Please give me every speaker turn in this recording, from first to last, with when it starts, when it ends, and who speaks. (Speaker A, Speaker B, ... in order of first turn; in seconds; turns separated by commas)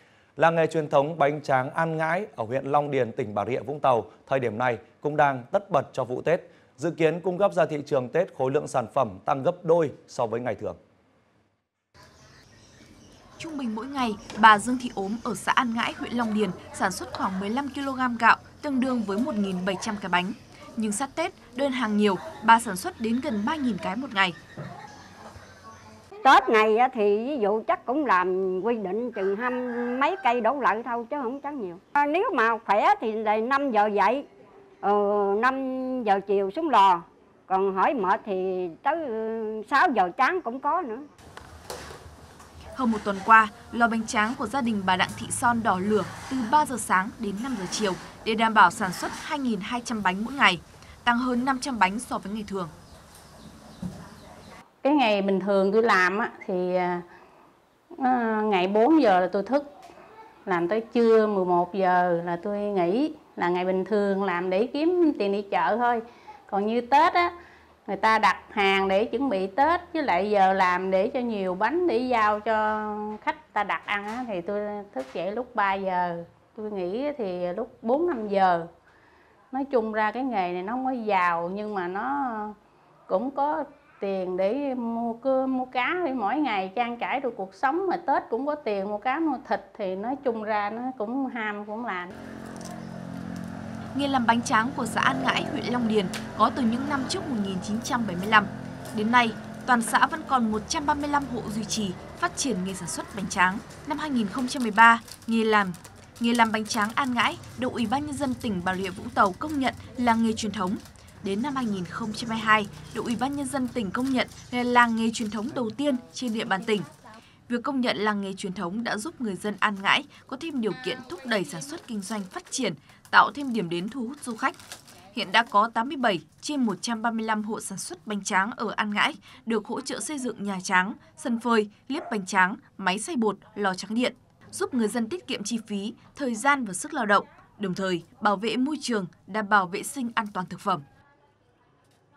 Speaker A: 0.4-10.8, Speaker B: 13.4-24.4, Speaker C: 26.2-34.2, Speaker C: 34.8-41.0, Speaker B: 42.7-52.7, Speaker D: 54.8-57.0, Speaker D: 58.0-59.6, Speaker D: 60.5-67.3, Speaker D: 67.9-78.7, Speaker D: 79.5-82.5, Speaker D: 83.1-92.1, Speaker B: 93.9-116.9, Speaker B: 117.5-124.5, Speaker B: 125.1-140.8